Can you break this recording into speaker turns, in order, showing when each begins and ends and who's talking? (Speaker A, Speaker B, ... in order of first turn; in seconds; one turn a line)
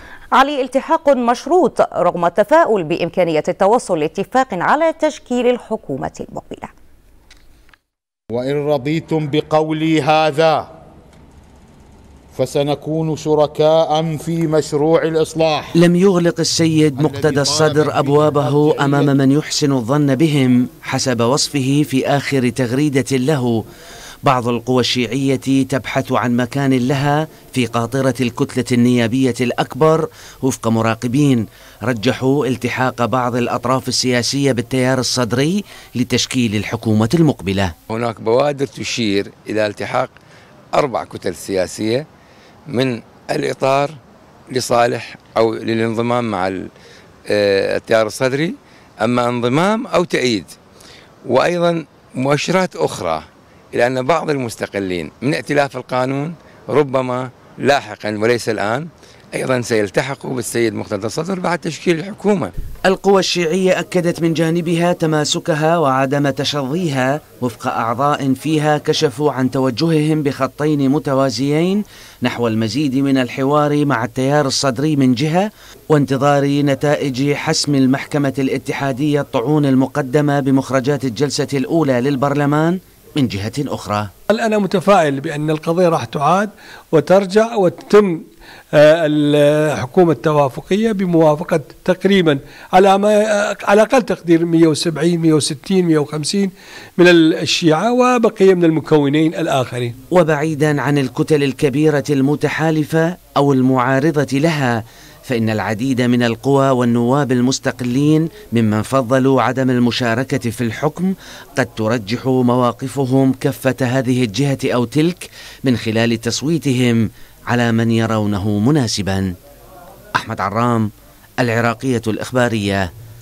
Speaker A: 0.3-6.7
Speaker B: 8.3-10.7
Speaker B: 12.3-15.8
Speaker C: 15.8-23.6
Speaker B: 17.0-19.1
Speaker C: 24.2-37.7
Speaker D: 37.9-40.1
Speaker D: 40.7-42.0
Speaker D: 42.7-44.0
Speaker D: 44.5-46.6
Speaker D: 47.3-50.5
Speaker D: 51.3-53.2
Speaker D: 53.7-62.5
Speaker C: 62.9-84.1
Speaker E: 84.3-100.0
Speaker C: 100.1-119.3
Speaker C: 120.2-120.9
Speaker C: 121.4-122.9